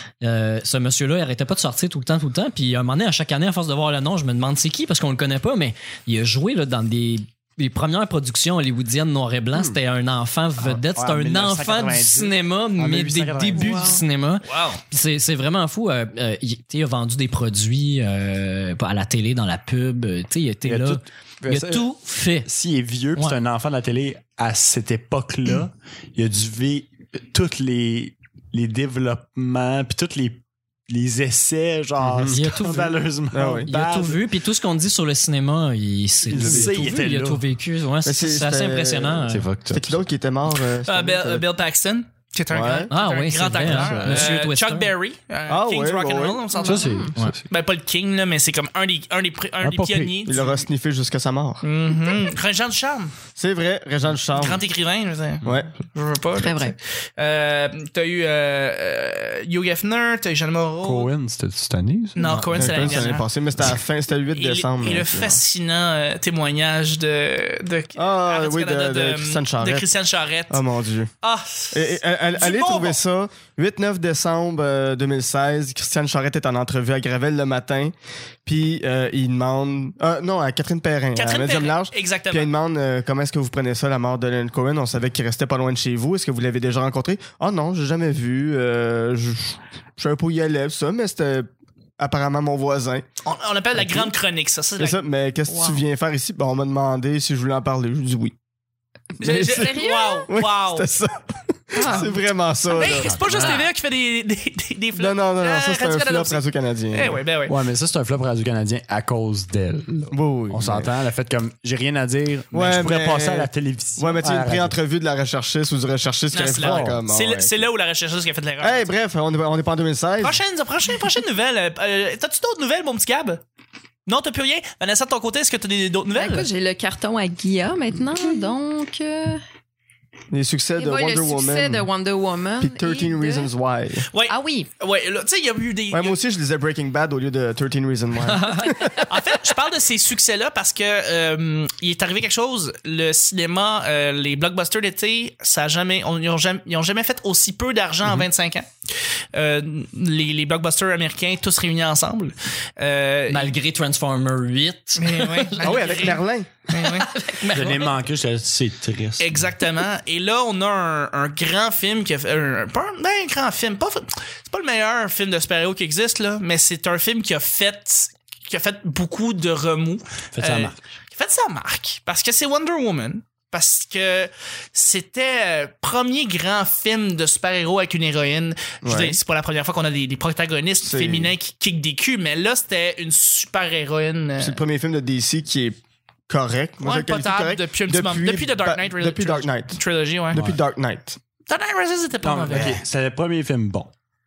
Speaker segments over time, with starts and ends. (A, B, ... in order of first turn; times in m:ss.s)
0:00.2-0:22.5 A
0:10.6-0:14.0 B
0:13.6-0:14.0 C
0:14.4-0:14.8 D
0:20.6-0:21.9 B
0:22.4-0:34.2 B
0:32.0-0:32.4 E
0:32.3-0:33.0 A
0:33.3-0:33.7 E
0:33.7-0:39.5 A
0:36.3-0:37.4 B
0:36.3-0:36.9 E
0:38.0-0:41.4 E
0:39.2-0:40.0 B
0:40.6-0:46.9 D
0:42.5-0:42.9 E
0:42.9-0:44.9 A
0:43.6-0:44.3 B
0:43.7-0:44.2 E
0:45.5-0:46.4 E
0:46.5-0:47.1 C
0:46.6-0:47.4 B
0:47.5-0:50.6 D
0:49.6-0:50.2 B
0:50.2-0:51.6 E
0:51.6-0:53.1 D
0:53.4-0:54.6 E
0:54.3-1:01.1 D
0:55.4-0:55.7 E
0:56.4-0:56.7 C
1:00.8-1:02.9 B
1:02.2-1:03.3 D
1:02.2-1:02.9 A
1:02.5-1:05.4 E
1:04.3-1:10.6 D
1:08.0-1:09.8 E
1:10.5-1:11.1 E
1:11.2-1:13.0 D
1:11.7-1:17.9 E
1:18.4-1:31.5 E
1:21.1-1:22.5 D
1:32.0-1:33.0 E
1:33.2-1:35.0 D
1:33.7-1:34.1 E
1:34.8-1:38.3 E
1:35.5-1:35.8 C
1:39.2-1:40.9 D
1:39.2-1:43.2 E
1:39.5-1:40.3 C
1:41.7-1:42.1 C
1:41.8-1:42.1 D
1:42.7-1:47.5 D
1:43.0-1:43.6 B
1:43.3-1:43.6 C
1:45.0-1:47.2 E
1:47.4-1:54.8 B
1:50.1-1:50.9 E
1:52.5-1:57.5 E
1:56.3-1:58.9 D
1:56.5-1:57.0 B
1:58.6-2:00.4 E
2:00.2-2:03.4 D
2:04.0-2:06.5 D
2:06.1-2:09.4 C
2:10.3-2:11.9 E
2:10.8-2:13.5 C
2:12.6-2:14.1 E
2:14.1-2:16.2 D
2:14.3-2:14.7 C
2:15.9-2:19.0 E
2:18.3-2:19.0 A
2:19.0-2:28.7 D
2:29.3-2:33.5 D
2:33.3-2:35.7 A
2:35.0-2:37.1 D
2:35.6-2:36.6 E
2:36.8-2:37.9 A
2:37.5-2:39.5 B
2:39.2-3:04.6 D
2:50.3-2:50.8 B
2:58.8-2:59.2 E
3:00.8-3:01.3 E
3:04.4-3:05.8 E
3:06.3-3:09.8 E
3:06.8-3:10.4 D
3:10.3-3:11.2 E
3:10.3-3:10.6 B
3:11.5-3:12.8 D
3:12.2-3:13.9 B